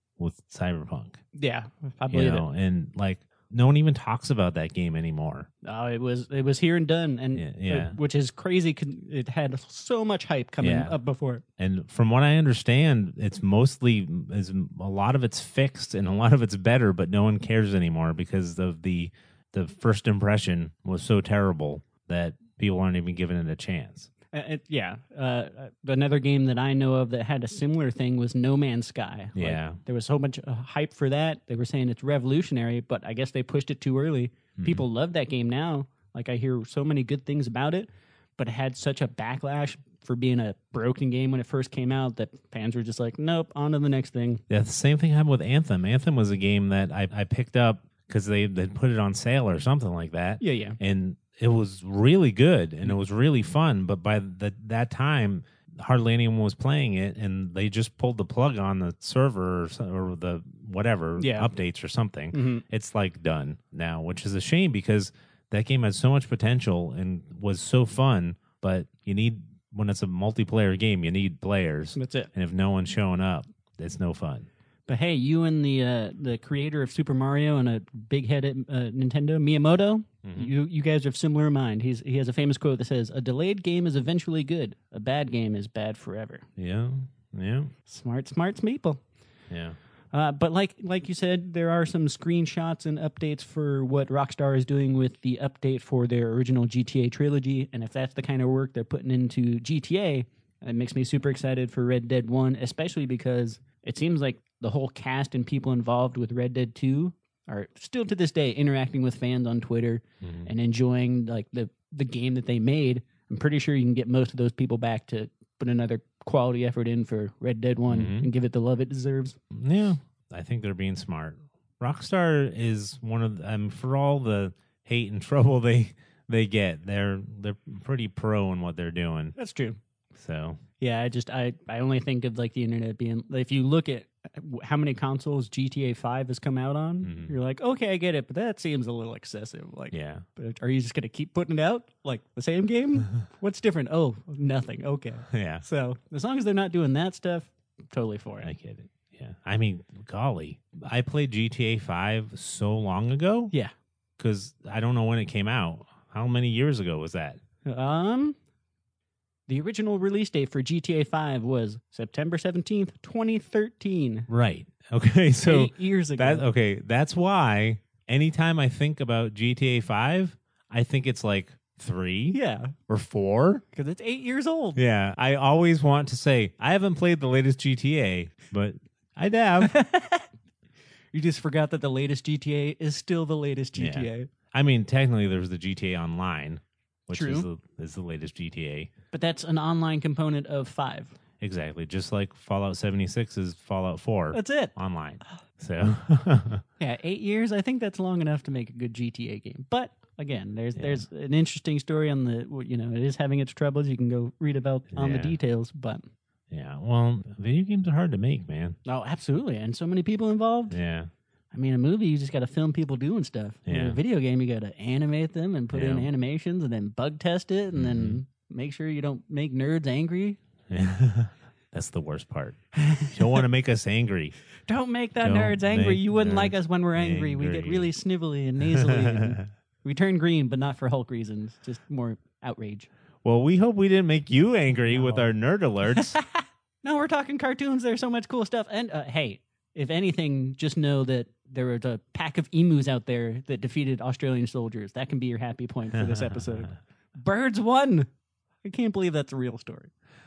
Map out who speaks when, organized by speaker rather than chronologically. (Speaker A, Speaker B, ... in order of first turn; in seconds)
Speaker A: 0.2-1.2, 2.1-5.5, 7.3-8.0, 10.6-11.0, 11.6-24.1, 29.4-29.8, 34.6-34.8, 44.5-74.5, 80.2-80.5, 86.6-87.7, 89.5-89.8, 110.2-110.5, 117.9-118.3, 119.5-129.3, 130.2-130.6, 137.0-137.3, 139.9-140.2, 145.3-145.7, 148.4-153.5, 154.2-157.4, 164.3-173.6, 174.8-179.8, 183.8-188.9, 191.4-196.6, 200.8-201.0, 204.9-205.4, 206.5-208.8, 210.7-211.1, 213.7-214.0, 215.7-216.1, 217.7-218.2, 220.7-224.4, 225.2-227.9, 228.8-229.4, 233.2-236.2, 246.2-246.4
Speaker B: 1.3-2.5, 5.6-11.4, 24.3-44.4, 50.4-50.8, 61.2-61.5, 62.3-62.6, 72.0-72.3, 74.9-86.4, 87.9-89.0, 90.1-119.4, 129.4-129.8, 130.8-148.5, 157.7-158.4, 159.5-164.3, 165.4-166.5, 172.3-172.7, 173.7-174.8, 179.6-180.3, 181.1-184.3, 187.1-187.5, 189.1-191.2, 194.3-194.7, 196.8-206.0, 208.8-210.8, 211.5-220.4, 222.7-223.4, 224.7-232.9, 234.9-235.3, 235.9-248.1, 248.6-249.9